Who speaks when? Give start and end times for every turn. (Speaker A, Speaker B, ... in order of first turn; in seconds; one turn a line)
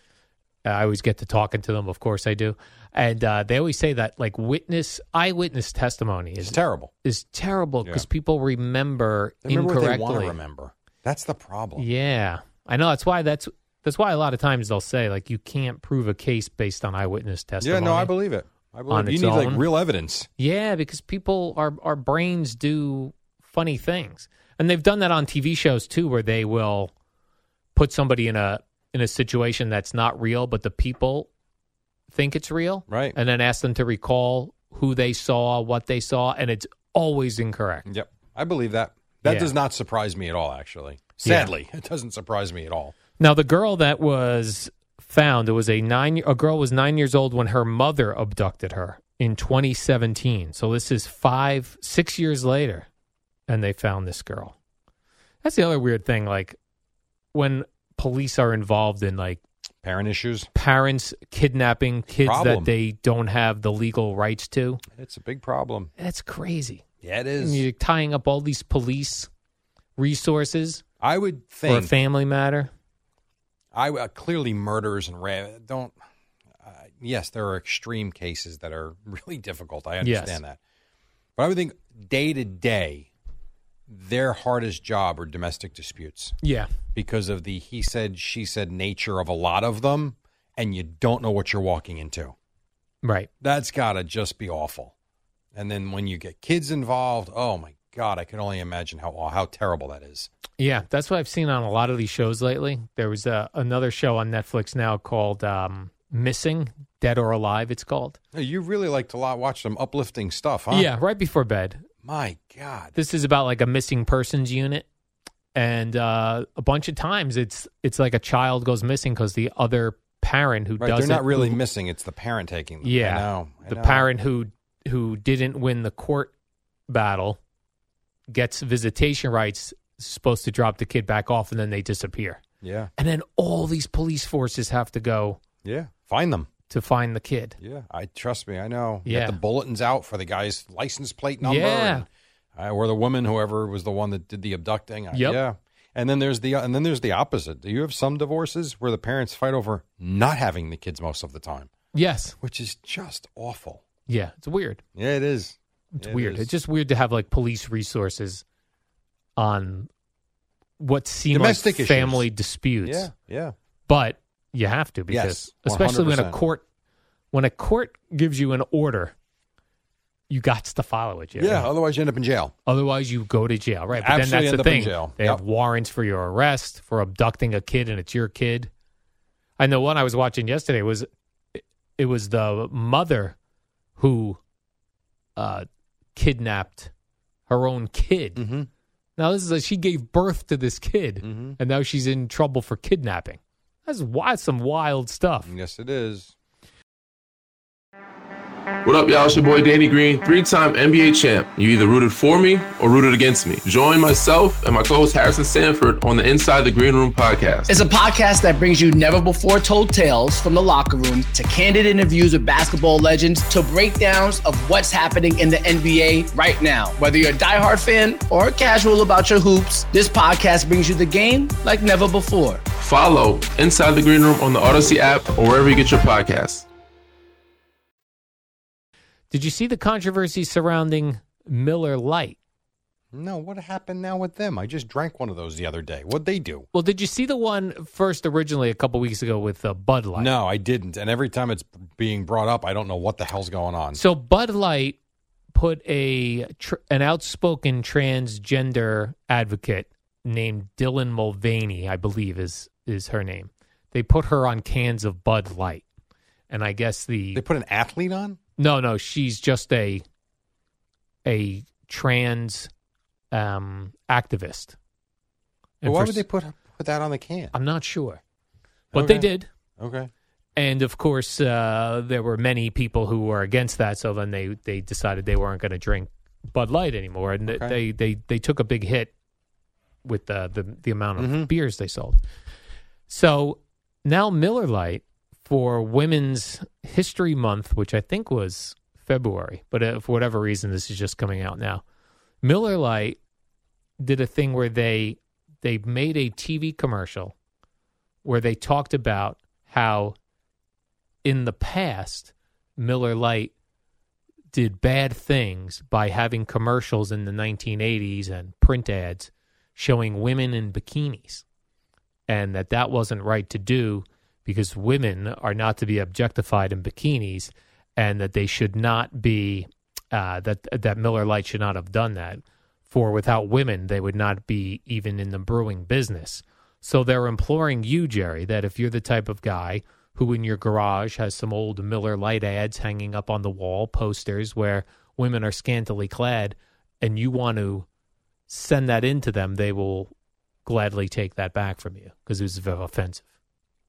Speaker A: 0.6-10.3
Speaker B: 6.4-6.9
Speaker B: 9.4-11.8
Speaker A: 11.8-18.1
Speaker B: 17.6-20.3
Speaker A: 18.9-19.6
Speaker A: 20.4-26.9
Speaker A: 27.7-31.3
Speaker A: 32.1-37.9
Speaker B: 32.9-33.1
Speaker B: 37.9-42.9
Speaker A: 39.2-39.5
Speaker A: 41.2-41.5
Speaker A: 43.2-52.9
Speaker A: 53.5-54.5
Speaker A: 55.4-56.6
Speaker A: 57.3-59.4
Speaker B: 59.8-60.5
Speaker A: 60.5-64.8
Speaker B: 62.2-62.7
Speaker B: 64.9-65.9
Speaker A: 66.0-66.8
Speaker B: 67.0-67.6
Speaker A: 67.4-69.3
Speaker A: 70.0-70.8
Speaker B: 71.0-71.9
Speaker A: 71.7-72.7
Speaker B: 73.7-75.9
Speaker B: 76.6-80.6
Speaker A: 80.0-80.4
Speaker B: 81.4-83.1
Speaker B: 83.9-86.3
Speaker A: 86.4-86.7
Speaker B: 86.9-92.3
Speaker A: 93.0-93.3
Speaker B: 93.4-94.9
Speaker B: 95.5-100.3
Speaker A: 100.6-108.2
Speaker B: 108.3-110.9
Speaker A: 110.7-111.8
Speaker B: 112.0-112.9
Speaker A: 112.9-114.8
Speaker A: 115.5-121.6
Speaker B: 120.8-124.0
Speaker A: 122.8-126.3
Speaker A: 126.9-127.4
Speaker A: 128.3-132.4
Speaker B: 132.6-132.9
Speaker A: 133.0-135.4
Speaker B: 135.6-136.5
Speaker A: 136.7-137.5
Speaker B: 137.6-151.7
Speaker A: 139.1-139.4
Speaker A: 141.4-142.0
Speaker A: 145.1-145.4
Speaker A: 151.9-152.3
Speaker B: 152.4-153.8
Speaker A: 154.1-154.8
Speaker B: 154.9-156.5
Speaker A: 155.9-158.4
Speaker A: 159.4-159.9
Speaker A: 160.8-163.1
Speaker B: 161.3-162.2
Speaker B: 162.8-163.5
Speaker A: 163.9-166.6
Speaker B: 165.1-166.4
Speaker A: 167.3-169.1
Speaker A: 170.3-171.7
Speaker B: 171.4-172.5
Speaker A: 172.7-178.7
Speaker B: 173.9-175.4
Speaker A: 179.6-183.3
Speaker A: 184.0-184.4
Speaker A: 185.3-186.9
Speaker A: 187.5-188.4
Speaker B: 188.3-188.7
Speaker A: 189.2-195.5
Speaker B: 191.2-191.6
Speaker B: 195.4-196.3
Speaker C: 198.8-207.7
Speaker D: 207.7-222.6
Speaker C: 222.8-226.7
Speaker A: 229.3-232.4
Speaker B: 233.1-236.7
Speaker A: 236.7-240.3
Speaker B: 240.2-244.0
Speaker A: 243.9-245.0
Speaker A: 245.5-255.8
Speaker A: 256.5-257.4
Speaker B: 257.3-258.4
Speaker A: 258.6-260.0
Speaker A: 261.2-262.7
Speaker A: 263.3-264.8
Speaker A: 265.8-266.2
Speaker B: 265.8-267.5
Speaker A: 267.5-268.2
Speaker B: 268.9-269.3
Speaker A: 268.9-269.5
Speaker B: 269.8-270.1
Speaker A: 270.6-279.1
Speaker B: 277.5-277.8
Speaker A: 280.0-282.2
Speaker B: 281.2-281.5
Speaker A: 283.1-291.8
Speaker A: 292.4-293.2
Speaker A: 294.0-297.3
Speaker A: 298.2-300.1
Speaker A: 301.2-303.5
Speaker A: 304.5-311.4
Speaker A: 312.3-337.9
Speaker A: 338.5-340.1
Speaker A: 340.6-343.2